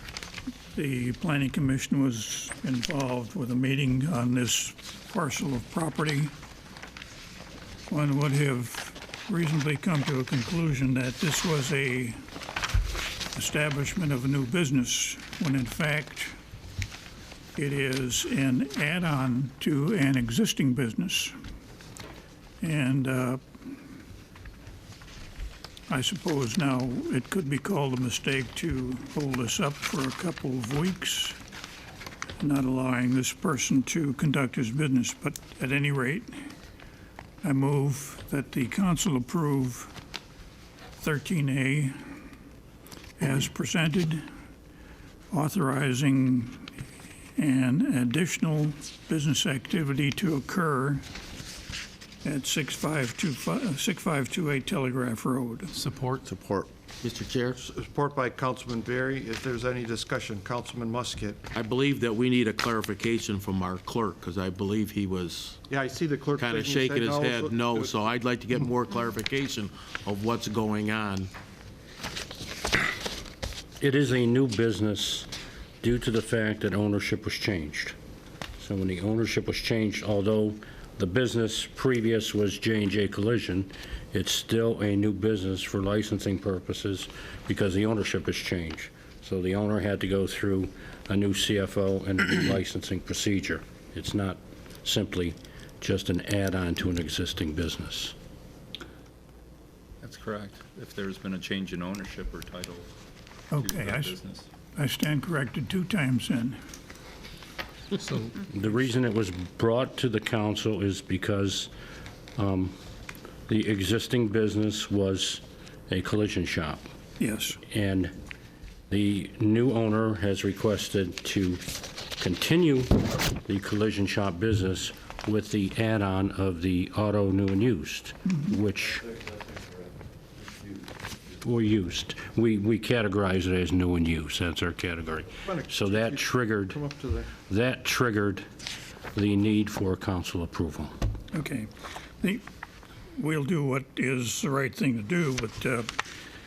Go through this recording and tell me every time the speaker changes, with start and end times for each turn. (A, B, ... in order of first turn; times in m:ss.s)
0:00.7-0:06.3 A
0:07.9-0:12.2 A
0:13.3-0:16.3 A
0:17.6-0:21.3 A
0:22.6-0:23.4 A
0:25.9-0:31.4 A
0:32.4-0:36.4 A
0:37.4-0:39.9 A
0:41.0-0:42.0 A
0:43.2-0:44.3 A
0:45.3-0:46.7 A
0:47.4-0:51.0 A
0:52.2-0:55.8 A
0:55.8-0:57.6 B
0:57.6-1:01.4 C
1:01.5-1:05.6 B
1:05.7-1:08.2 C
1:06.4-1:11.3 B
1:13.8-1:15.3 D
1:15.8-1:17.9 D
1:18.6-1:38.1 D
1:40.0-1:42.9 E
1:43.5-1:44.2 A
1:43.5-1:44.5 E
1:44.7-1:46.6 A
1:48.0-1:48.4 E
1:48.4-1:51.7 D
1:52.4-1:52.7 D
1:53.5-1:56.8 D
1:57.2-1:57.6 A
1:57.7-1:58.1 D
1:58.9-2:01.6 D
2:02.2-2:09.1 D
2:11.4-2:16.8 D
2:15.4-2:17.3 C
2:17.5-2:18.4 D
2:19.1-2:20.9 D
2:21.3-2:22.4 A
2:23.2-2:25.9 A